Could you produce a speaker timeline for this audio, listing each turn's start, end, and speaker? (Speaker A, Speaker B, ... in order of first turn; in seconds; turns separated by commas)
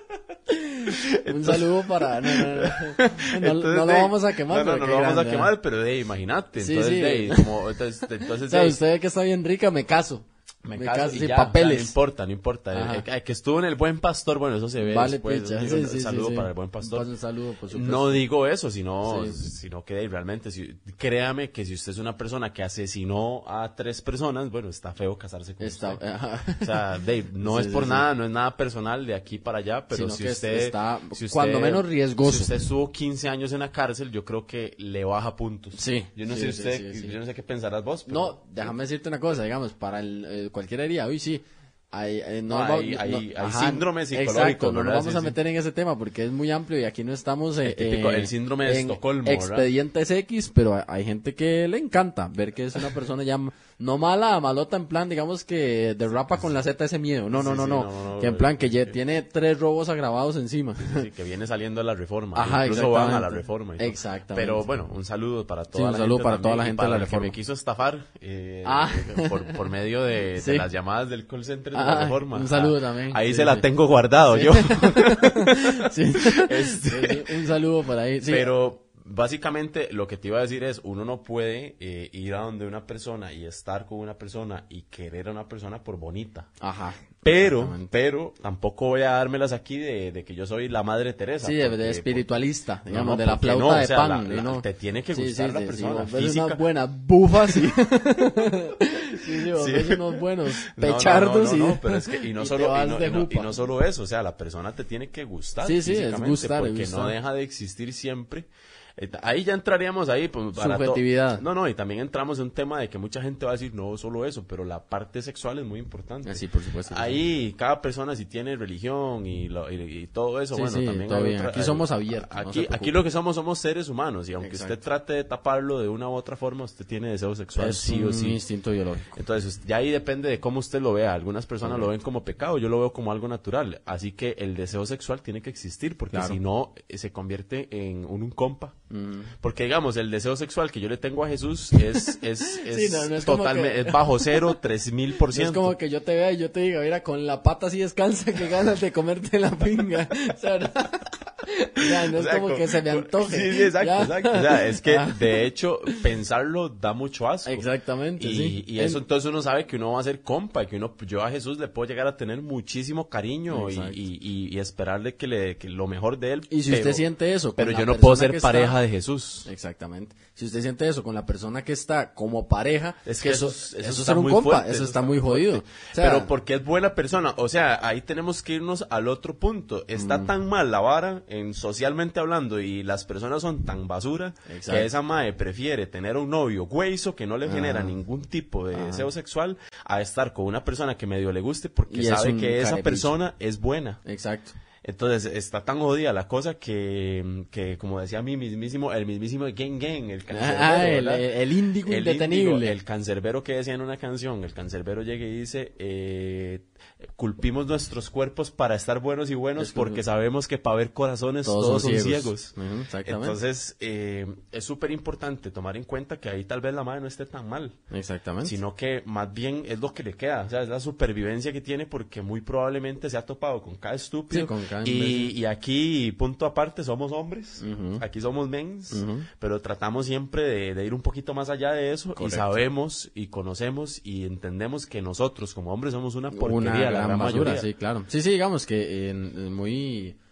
Speaker A: 0.5-5.5, Speaker B: 0.9-8.8, Speaker A: 6.6-11.9, Speaker B: 10.7-17.1, Speaker A: 12.7-13.1, Speaker A: 14.8-18.2, Speaker B: 17.7-26.0, Speaker A: 19.1-19.4, Speaker A: 25.6-26.9, Speaker B: 26.6-38.7, Speaker A: 27.4-28.1, Speaker A: 29.9-32.5, Speaker A: 35.8-37.2, Speaker A: 38.1-61.1, Speaker B: 42.5-45.4, Speaker B: 47.6-49.7, Speaker B: 57.3-59.0, Speaker B: 60.8-77.4, Speaker A: 62.4-64.7, Speaker A: 65.7-67.3, Speaker A: 68.7-69.6, Speaker A: 70.4-70.7, Speaker A: 71.7-73.7, Speaker A: 74.3-78.5, Speaker B: 78.2-86.5, Speaker A: 86.6-87.9, Speaker B: 87.2-92.3, Speaker A: 91.4-103.6, Speaker B: 92.9-96.6, Speaker B: 99.2-128.4, Speaker A: 105.6-107.2, Speaker A: 110.6-111.4, Speaker A: 116.2-117.2, Speaker A: 120.5-123.0, Speaker A: 124.4-124.8, Speaker A: 127.6-129.2, Speaker B: 129.2-138.8, Speaker A: 136.1-136.4, Speaker A: 138.9-139.3, Speaker B: 139.4-145.8, Speaker A: 141.9-144.6, Speaker A: 145.2-156.0, Speaker B: 151.8-157.7, Speaker A: 157.5-159.0, Speaker B: 158.2-167.1, Speaker A: 163.5-164.0, Speaker A: 166.5-168.8, Speaker B: 167.6-169.5, Speaker A: 169.4-176.3, Speaker B: 173.1-194.0, Speaker A: 179.9-180.3, Speaker A: 184.5-184.9, Speaker A: 187.5-188.0, Speaker A: 188.7-189.1, Speaker A: 191.9-193.1, Speaker A: 194.1-194.6, Speaker B: 194.8-201.3, Speaker A: 200.3-202.8, Speaker B: 201.8-212.5, Speaker A: 209.6-210.0, Speaker A: 211.4-213.4, Speaker B: 213.0-217.8, Speaker A: 217.9-218.6, Speaker B: 218.4-237.7, Speaker A: 224.3-225.3, Speaker A: 227.6-228.0, Speaker A: 228.9-229.3, Speaker A: 232.2-232.6, Speaker A: 236.3-240.2